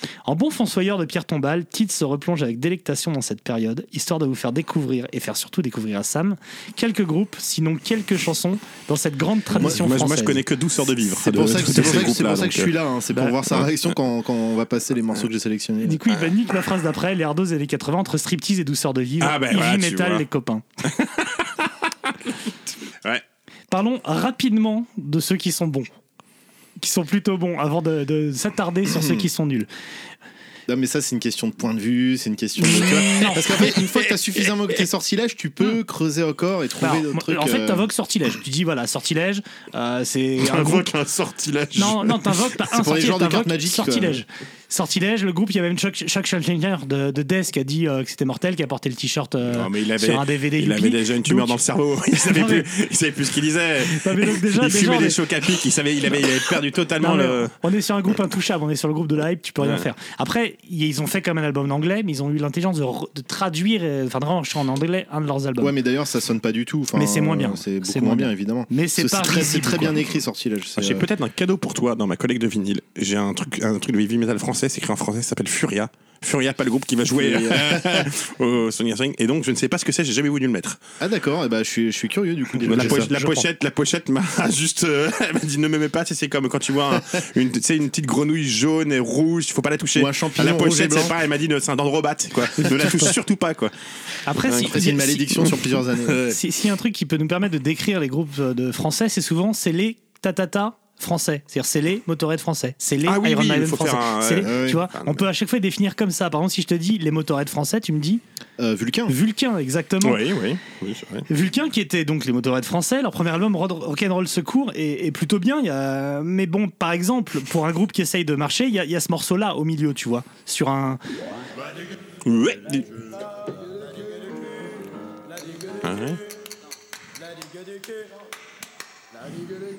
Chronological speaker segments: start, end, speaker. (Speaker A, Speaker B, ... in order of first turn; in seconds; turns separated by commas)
Speaker A: 0.3-10.4, Speaker B: 9.6-12.7, Speaker C: 11.2-16.0, Speaker B: 13.3-13.7, Speaker A: 15.8-20.6, Speaker B: 19.2-20.2, Speaker B: 20.9-22.1, Speaker A: 23.7-25.9, Speaker A: 26.8-29.7, Speaker C: 28.9-29.3, Speaker C: 30.7-37.9, Speaker A: 32.6-33.7, Speaker A: 36.8-40.9, Speaker B: 40.4-42.5, Speaker A: 41.8-51.6, Speaker C: 42.7-44.2, Speaker B: 49.5-57.5, Speaker A: 52.1-52.7, Speaker A: 53.9-55.2, Speaker A: 57.0-65.7, Speaker B: 59.6-59.9, Speaker C: 65.6-71.1, Speaker A: 67.0-70.0, Speaker B: 70.8-80.8, Speaker C: 77.1-78.1, Speaker C: 81.0-83.1, Speaker B: 82.6-93.7, Speaker A: 82.7-83.5, Speaker C: 90.0-91.2, Speaker A: 92.6-93.1, Speaker A: 94.3-95.3, Speaker B: 94.5-94.8, Speaker C: 94.5-96.2, Speaker B: 95.3-96.4, Speaker A: 96.3-108.2, Speaker B: 103.0-105.3, Speaker C: 104.4-104.8, Speaker C: 108.6-109.2, Speaker A: 109.1-110.2, Speaker B: 110.0-111.3, Speaker A: 111.3-121.0, Speaker B: 122.2-123.0, Speaker B: 125.8-126.2